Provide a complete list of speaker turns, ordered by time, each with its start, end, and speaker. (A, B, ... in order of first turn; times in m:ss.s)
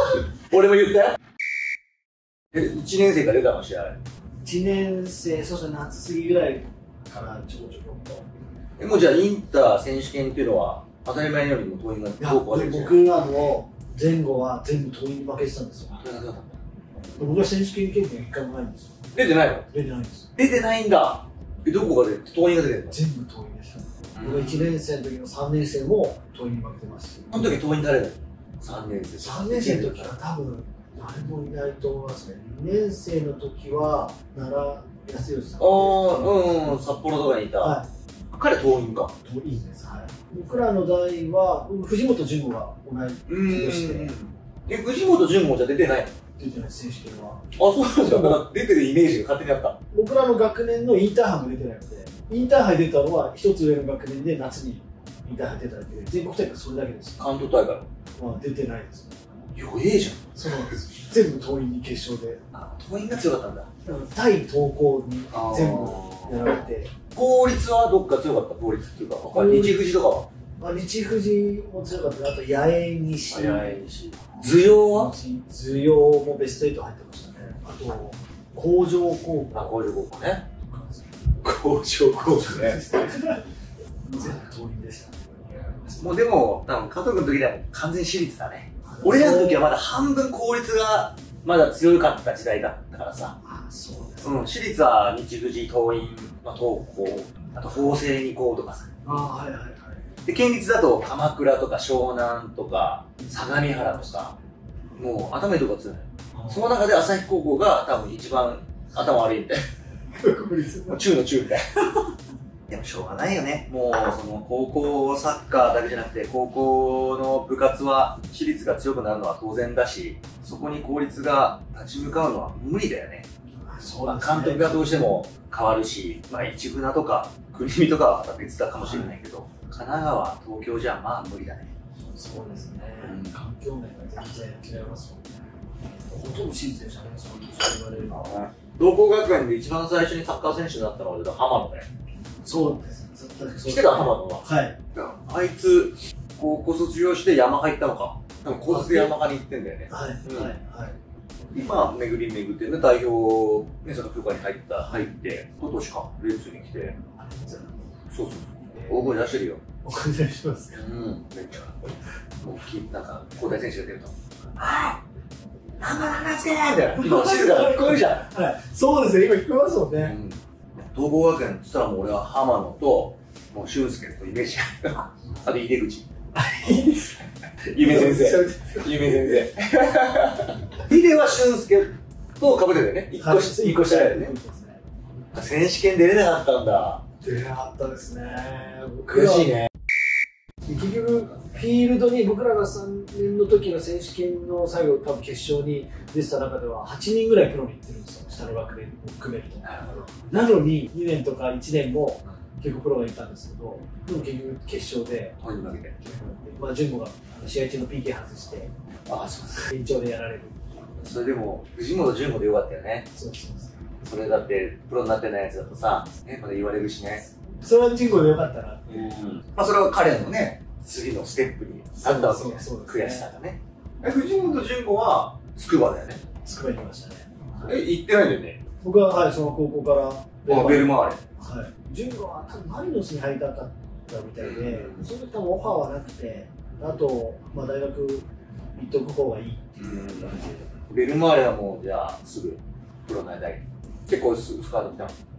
0:00.4-0:01.2 A
0:02.5-0:04.0 A
0:04.4-0:08.3 B
0:08.8-0:13.4 A
0:12.2-0:16.0 B
0:15.9-0:16.6 A
0:17.2-0:18.9 B
0:19.1-0:19.7 A
0:19.7-0:20.3 B
0:20.4-0:23.0 A
0:22.9-0:27.6 B
0:27.3-0:30.1 A
0:29.2-0:36.6 B
0:35.6-0:37.8 A
0:37.6-0:37.9 B
0:38.3-0:39.1 A
0:39.2-0:44.1 B
0:43.3-0:46.2 A
0:46.4-0:47.4 B
0:47.6-0:49.8 A
0:48.0-0:48.3 B
0:49.9-0:57.2 B
0:57.2-0:57.9 A
0:58.2-0:59.3 B
0:59.6-1:00.6 A
1:00.3-1:02.4 B
1:02.5-1:03.7 A
1:03.8-1:06.9 B
1:05.3-1:06.5 A
1:07.1-1:10.3 A
1:09.3-1:09.8 B
1:10.6-1:13.8 B
1:13.3-1:15.1 A
1:14.5-1:19.8 B
1:19.5-1:20.4 A
1:20.7-1:21.1 B
1:21.4-1:22.8 A
1:22.3-1:23.4 B
1:24.0-1:26.1 B
1:26.0-1:33.4 A
1:28.8-1:29.7 B
1:33.4-1:34.5 B
1:34.2-1:39.0 A
1:39.0-1:40.0 B
1:40.2-1:44.4 A
1:45.0-1:49.6 A
1:50.1-1:51.0 B
1:50.9-1:51.8 A
1:52.7-2:03.3 A
2:03.6-2:05.1 B
2:04.0-2:11.7 A
2:08.8-2:09.1 B
2:12.1-2:15.3 B
2:13.0-2:13.3 A
2:16.1-2:18.2 B
2:18.1-2:21.8 A
2:22.4-2:24.8 B
2:23.6-2:30.5 A
2:28.5-2:29.1 B
2:29.9-2:31.0 B
2:31.5-2:37.0 A
2:37.2-2:37.7 B
2:38.1-2:39.6 A
2:38.7-2:39.2 B
2:39.8-2:40.8 B
2:40.7-2:41.8 A
2:42.4-2:45.0 A
2:45.8-2:48.2 A
2:47.0-2:50.2 B
2:50.0-2:50.4 A
2:50.9-2:56.0 A
2:56.3-2:57.1 B
2:57.7-3:04.3 A
2:57.8-2:59.2 B
3:03.2-3:04.8 B
3:05.3-3:07.0 A
3:07.2-3:09.6 B
3:09.1-3:09.7 A
3:10.6-3:25.4 B
3:19.6-3:20.1 A
3:25.4-3:26.2 A
3:26.1-3:28.7 B
3:29.1-3:29.6 A
3:29.6-3:30.8 B
3:31.0-3:33.1 A
3:33.1-3:33.8 B
3:34.0-3:37.2 A
3:37.4-3:39.4 B
3:38.9-3:46.2 A
3:42.0-3:43.3 B
3:46.4-3:47.7 B
3:47.6-3:48.6 A
3:48.8-4:00.6 B
3:50.5-3:51.2 A
3:54.4-3:55.0 A
3:59.8-4:05.1 A